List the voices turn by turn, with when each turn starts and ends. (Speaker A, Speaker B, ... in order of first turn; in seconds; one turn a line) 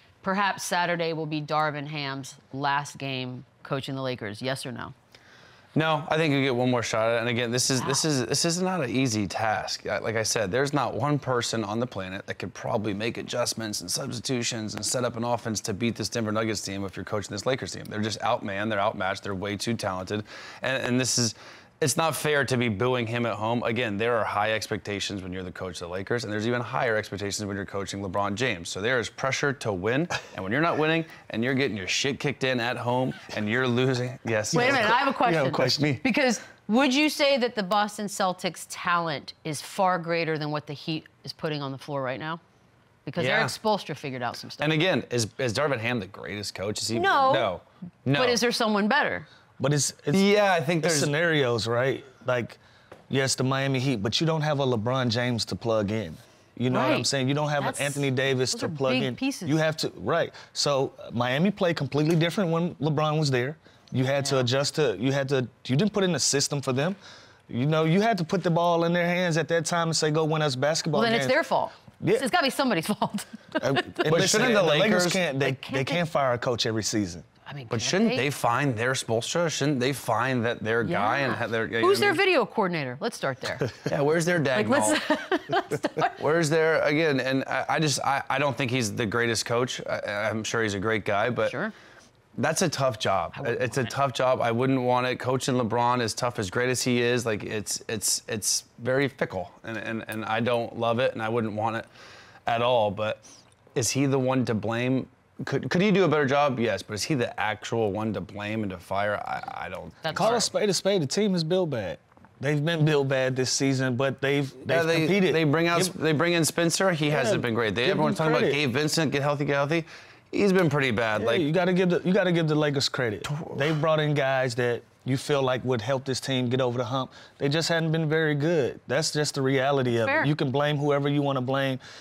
Speaker A: 0.2-4.9
Speaker B: 5.8-35.0
Speaker C: 34.5-36.0
Speaker A: 34.5-42.4
Speaker B: 35.6-36.0
Speaker A: 43.0-44.8
Speaker B: 43.2-43.6
Speaker B: 44.6-48.4
Speaker A: 46.9-47.5
Speaker A: 48.1-49.3
Speaker C: 49.6-50.2
Speaker B: 50.1-51.1
Speaker C: 50.8-52.6
Speaker C: 53.1-67.0
Speaker A: 56.7-59.6
Speaker A: 64.2-64.5
Speaker C: 67.5-71.4
Speaker A: 70.9-74.1
Speaker B: 73.6-75.2
Speaker C: 74.0-77.2
Speaker A: 75.4-76.0
Speaker A: 77.5-78.2
Speaker B: 77.7-82.2
Speaker A: 80.8-83.8
Speaker B: 83.9-85.0
Speaker A: 84.5-86.2
Speaker B: 86.2-91.6
Speaker A: 91.4-91.7
Speaker B: 92.4-101.9
Speaker A: 93.3-94.0
Speaker B: 102.5-103.2
Speaker B: 103.7-110.5
Speaker A: 110.0-110.5
Speaker C: 110.1-116.0
Speaker B: 114.7-121.5
Speaker C: 117.1-118.6
Speaker C: 121.2-131.8
Speaker B: 123.3-123.7
Speaker A: 129.9-130.3